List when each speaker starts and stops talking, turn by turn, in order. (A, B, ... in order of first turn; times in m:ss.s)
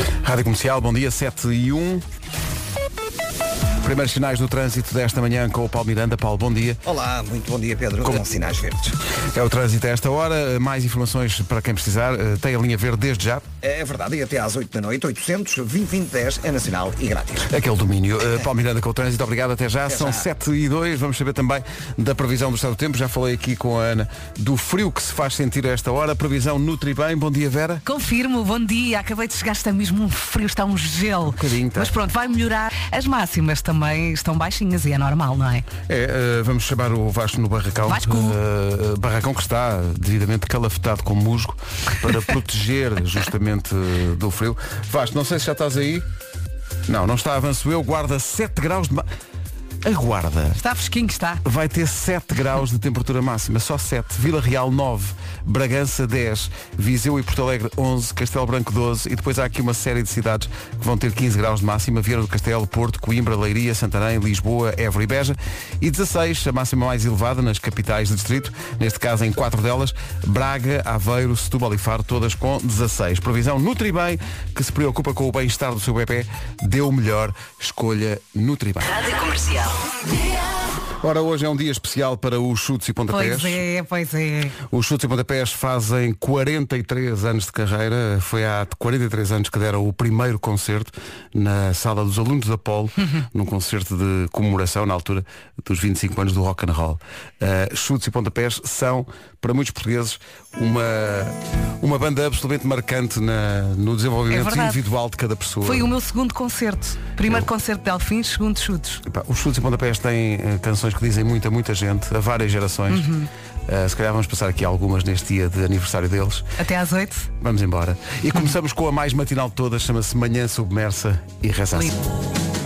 0:00.1-0:02.0 A
0:03.8-0:06.8 A
0:06.8-0:09.0 B
0:09.3-0:13.5 A
0:13.6-0:17.5 B
0:17.5-0:27.8 A
0:19.9-0:20.2 B
0:27.8-0:35.7 C
0:31.2-0:31.9 A
0:35.8-0:46.0 A
0:37.9-0:38.4 C
0:46.9-0:49.0 A
0:49.8-0:50.6 A
0:50.6-0:51.4 C
0:51.4-1:19.2 A
1:21.0-1:23.6 A
1:23.1-1:24.6 C
1:24.6-1:45.9 A
1:44.3-1:44.8 C
1:45.6-1:49.0 C
1:49.0-1:53.1 A
1:52.9-1:53.3 C
1:53.7-1:56.5 A
1:56.6-1:57.3 C
1:57.4-2:02.0 A